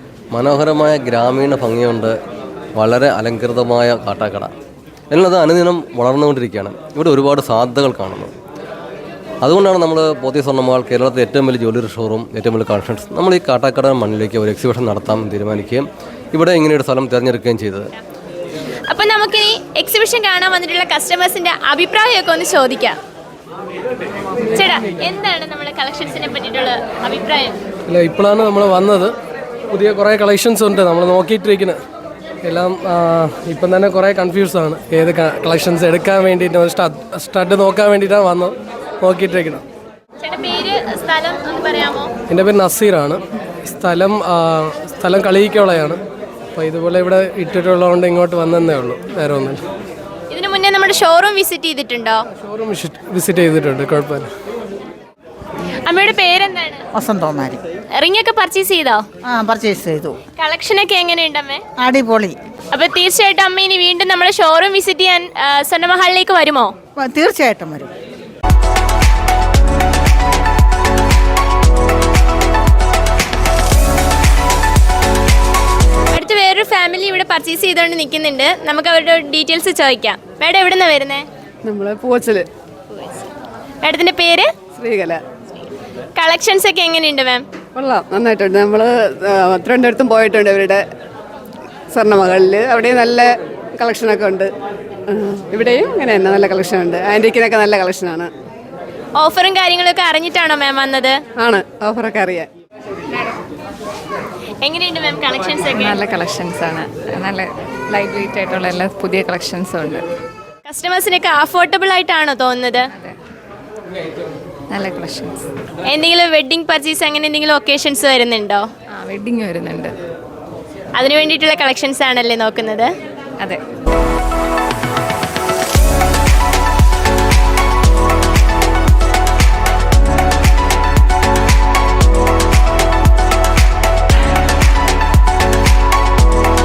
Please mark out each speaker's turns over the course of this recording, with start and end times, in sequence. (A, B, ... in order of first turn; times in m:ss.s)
0:00.3-0:02.1 A
0:02.8-0:04.5 A
0:05.1-0:08.3 A
0:09.4-0:17.9 A
0:18.9-0:23.0 B
0:24.5-0:27.6 B
0:27.9-0:29.1 C
0:29.7-0:31.8 C
0:32.4-0:39.6 C
0:40.2-0:42.1 B
0:42.3-0:43.2 C
0:43.7-0:46.0 C
0:46.6-0:49.6 C
0:50.3-0:52.2 B
0:52.6-0:54.3 C
0:55.7-0:56.8 B
0:57.0-0:57.6 D
0:57.9-0:59.0 B
0:59.2-1:00.2 D
1:00.4-1:01.6 B
1:01.8-1:02.4 D
1:02.7-1:06.7 B
1:07.0-1:07.9 D
1:16.1-1:21.3 B
1:21.6-1:22.5 E
1:22.9-1:23.2 B
1:23.8-1:24.5 B
1:24.7-1:25.2 E
1:26.2-1:27.4 B
1:27.8-1:30.8 E
1:31.9-1:34.5 E
1:35.1-1:38.3 E
1:39.2-1:41.2 B
1:41.4-1:42.5 E
1:44.6-1:46.0 B
1:45.7-1:50.0 F
1:50.6-1:52.9 B
1:54.7-1:55.5 F
1:55.8-1:58.7 B
1:59.0-1:59.9 F
2:01.0-2:02.9 B